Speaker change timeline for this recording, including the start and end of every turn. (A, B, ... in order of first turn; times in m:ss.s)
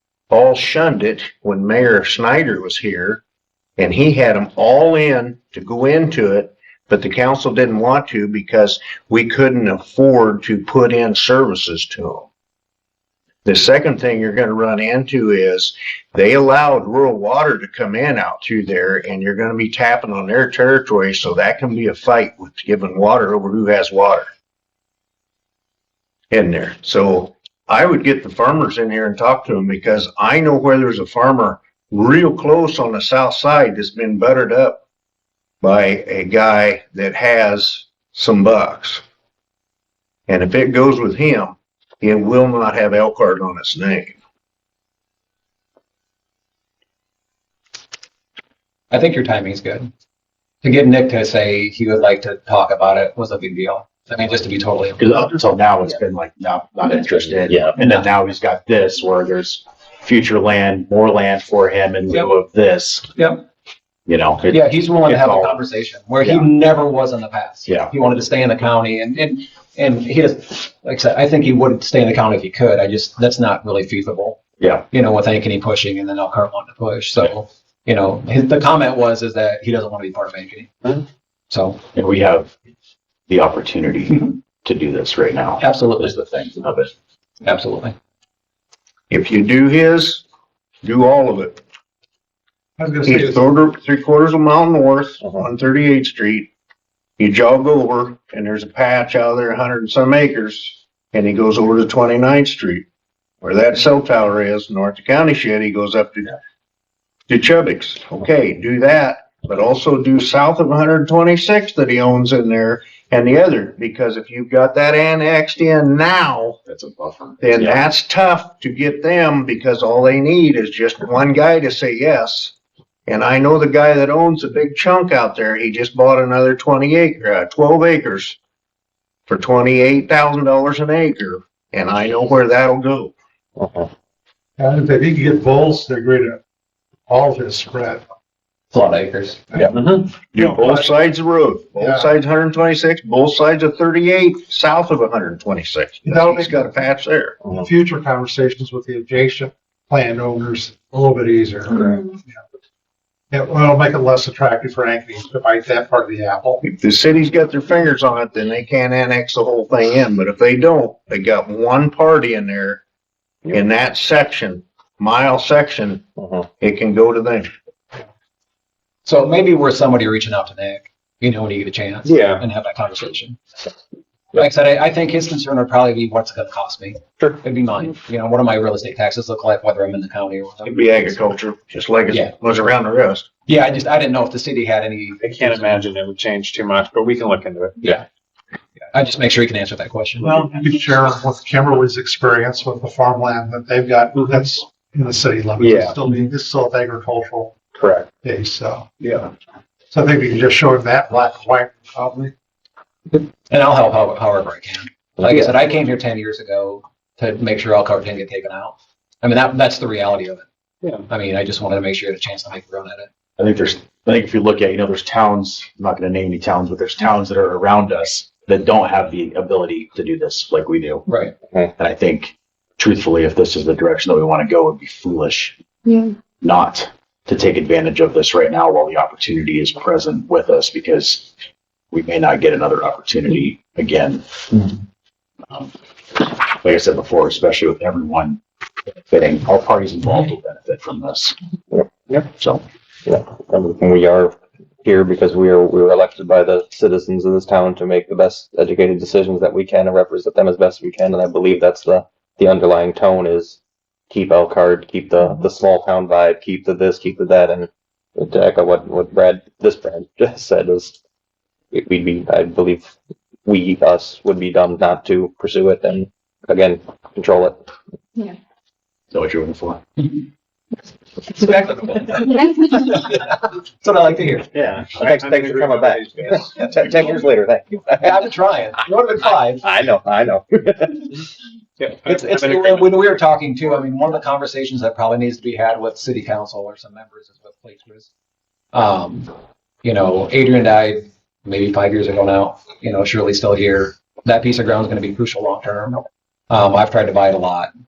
0:00.3-0:03.2 A
0:03.8-0:12.3 A
0:13.4-0:24.3 A
0:26.3-0:34.8 A
0:35.6-0:39.0 A
0:40.3-0:44.2 A
0:48.9-0:49.9 B
0:50.6-0:55.2 B
0:55.0-1:03.1 C
0:57.5-0:57.7 D
1:03.1-1:03.4 B
1:04.1-1:05.6 C
1:04.4-1:21.8 B
1:06.2-1:06.5 C
1:07.7-1:07.9 C
1:21.9-1:22.5 C
1:23.3-1:26.9 C
1:25.6-1:26.2 B
1:27.4-1:27.9 B
1:29.1-1:30.2 A
1:30.8-1:31.6 A
1:32.8-1:33.4 E
1:33.0-1:36.5 A
1:37.2-1:42.8 A
1:43.4-1:46.4 A
1:47.3-1:56.6 A
1:56.7-1:57.8 C
1:57.4-2:02.5 A
2:03.1-2:08.4 A
2:09.3-2:13.1 A
2:13.6-2:13.9 D
2:14.6-2:16.4 E
2:17.1-2:18.0 E
2:18.7-2:19.4 B
2:19.5-2:19.8 E
2:20.3-2:27.4 A
2:20.4-2:20.8 E
2:21.8-2:22.1 E
2:26.0-2:26.7 E
2:27.4-2:32.4 E
2:33.3-2:36.6 E
2:36.6-2:42.8 A
2:43.5-2:46.0 A
2:46.6-2:47.5 A
2:49.0-2:53.4 B
2:54.3-3:01.2 B
3:00.6-3:03.2 A
3:03.5-3:05.8 B
3:05.4-3:07.8 F
3:08.9-3:10.3 B
3:10.2-3:17.6 E
3:15.6-3:15.9 D
3:17.8-3:18.0 D
3:18.2-3:19.3 E
3:19.9-3:22.3 E
3:23.1-3:30.4 B
3:25.2-3:25.4 D
3:31.0-3:33.1 B
3:33.4-3:41.0 C
3:41.1-3:41.3 B
3:41.8-3:45.6 C
3:46.4-3:51.3 C
3:51.9-3:54.2 C
3:55.5-3:58.4 C
3:59.1-4:01.4 C
4:02.4-4:02.6 C
4:03.0-4:13.6 D
4:14.1-4:20.9 D
4:21.7-4:22.9 D
4:23.4-4:27.6 D
4:29.1-4:29.8 C
4:31.3-4:34.5 B
4:34.7-4:38.2 D
4:35.2-4:36.2 F
4:38.0-4:39.7 B
4:39.6-4:41.2 D
4:42.0-4:48.1 B
4:48.7-4:49.3 B
4:49.8-4:57.7 B